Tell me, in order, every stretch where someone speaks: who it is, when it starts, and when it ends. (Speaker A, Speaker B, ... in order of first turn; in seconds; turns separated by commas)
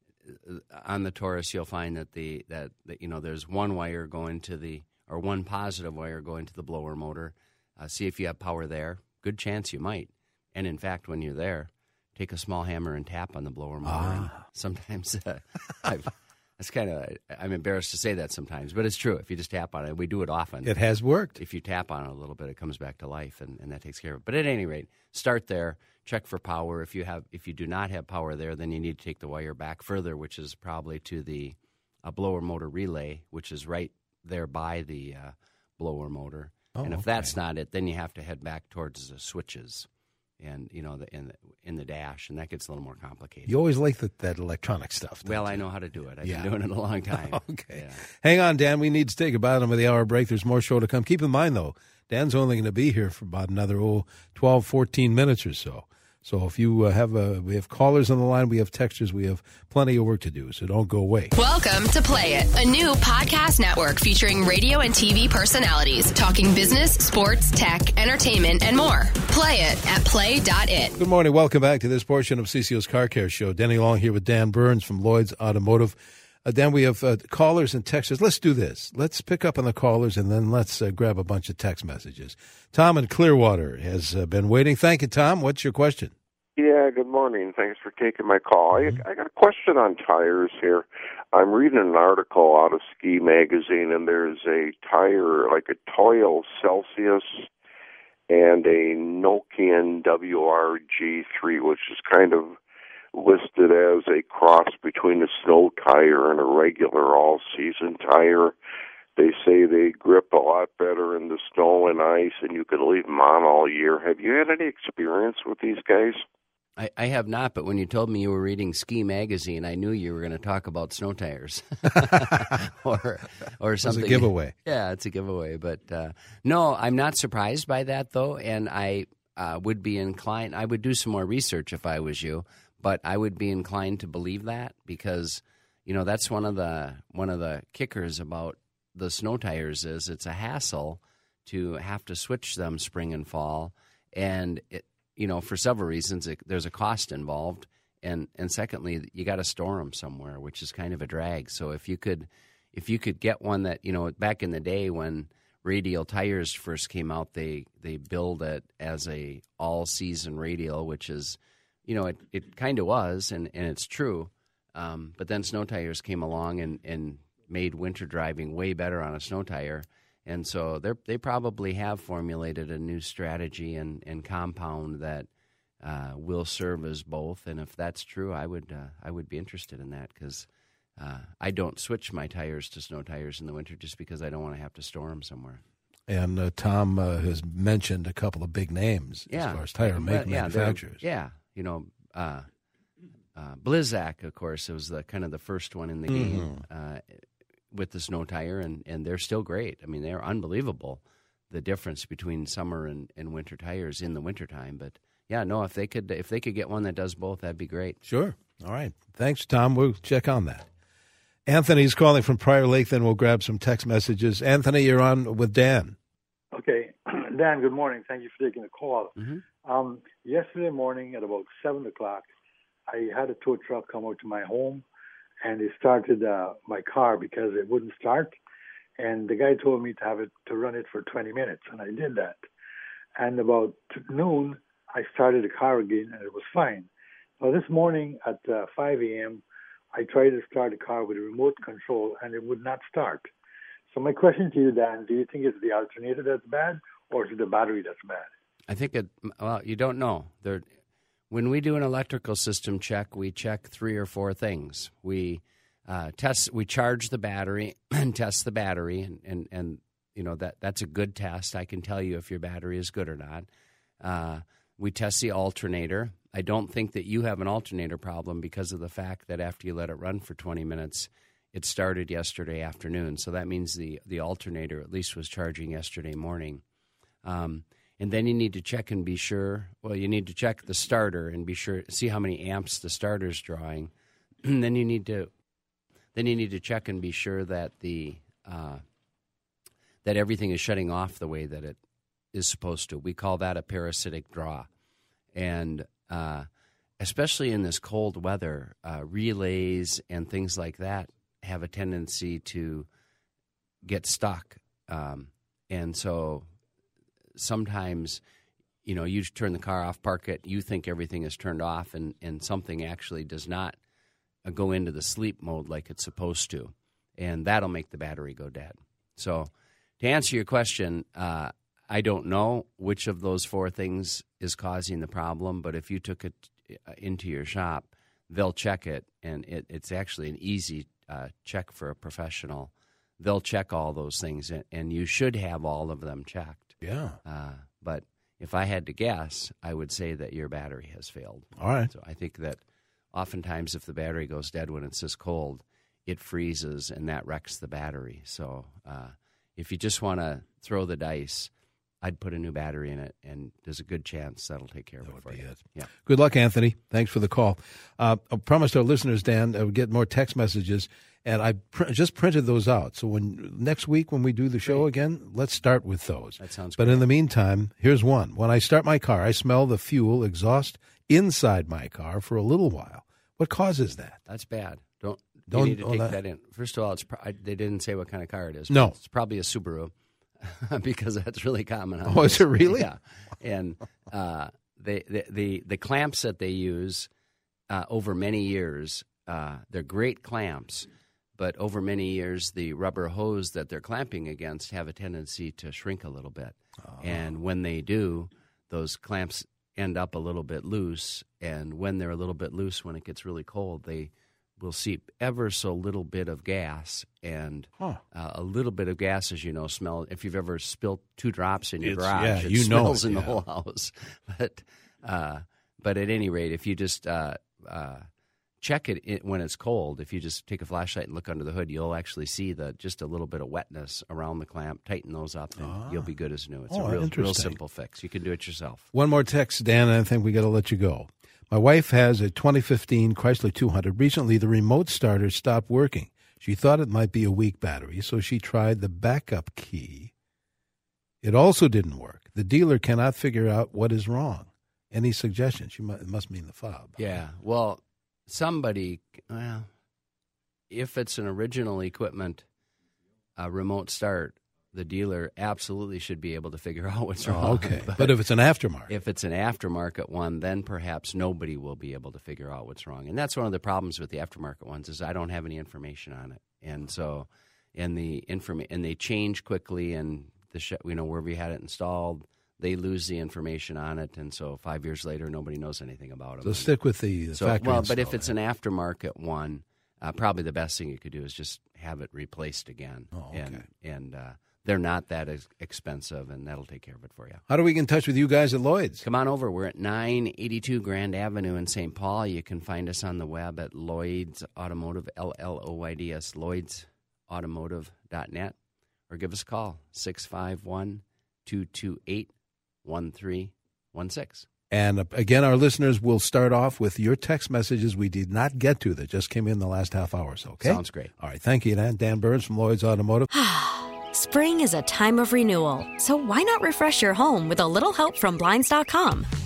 Speaker A: 0.2-20.7, Speaker B: 13.8-14.4, Speaker B: 20.6-21.4, Speaker A: 21.4-39.9, Speaker B: 36.7-37.3, Speaker A: 40.4-43.5, Speaker B: 43.5-45.6, Speaker A: 45.2-48.0, Speaker B: 46.2-46.5, Speaker B: 47.1-61.3, Speaker C: 61.4-70.9, Speaker B: 71.0-86.1, Speaker D: 86.6-97.5, Speaker B: 88.8-89.0, Speaker D: 98.3-102.6, Speaker D: 103.1-108.5, Speaker D: 109.2-116.2, Speaker A: 116.8-175.3, Speaker B: 122.0-122.4, Speaker B: 123.8-124.5, Speaker A: 175.8-185.6, Speaker B: 186.1-191.0, Speaker A: 189.3-192.5, Speaker A: 193.3-208.0, Speaker B: 196.1-196.6, Speaker B: 208.1-210.7, Speaker B: 211.4-215.9, Speaker E: 216.5-222.3, Speaker A: 219.2-219.4, Speaker E: 222.9-224.8, Speaker E: 225.4-228.4, Speaker E: 229.0-232.4, Speaker E: 233.2-239.4, Speaker E: 239.9-243.3, Speaker E: 243.9-248.3, Speaker A: 248.7-250.6, Speaker A: 251.3-263.5, Speaker A: 264.0-276.6, Speaker A: 277.2-283.9, Speaker A: 284.4-285.3, Speaker A: 286.1-288.8, Speaker A: 290.0-291.8, Speaker A: 292.3-294.7, Speaker A: 295.3-296.5, Speaker A: 297.0-302.9, Speaker A: 303.8-306.5, Speaker A: 307.4-308.2, Speaker A: 308.8-313.8, Speaker A: 314.4-342.6, Speaker B: 336.8-337.2, Speaker B: 341.6-341.9, Speaker A: 343.1-351.5, Speaker A: 352.0-355.9, Speaker B: 355.0-374.2, Speaker A: 366.4-367.1, Speaker A: 374.2-387.1, Speaker B: 375.5-376.1, Speaker B: 378.7-378.9, Speaker B: 382.1-382.9, Speaker A: 387.7-418.1, Speaker B: 396.8-397.3, Speaker B: 411.8-413.4, Speaker A: 418.6-428.9, Speaker B: 425.6-426.1, Speaker B: 426.7-427.6, Speaker B: 428.9-440.1, Speaker B: 441.2-447.0, Speaker A: 447.0-449.7, Speaker A: 450.7-452.4, Speaker A: 453.4-458.2, Speaker B: 457.2-458.9, Speaker A: 458.9-476.7, Speaker B: 476.4-478.3, Speaker A: 477.3-487.4, Speaker B: 483.1-483.6, Speaker B: 487.5-489.0, Speaker A: 489.0-498.5, Speaker A: 499.1-502.3, Speaker A: 502.8-504.4, Speaker B: 504.7-513.3, Speaker A: 510.6-511.1, Speaker F: 513.3-519.3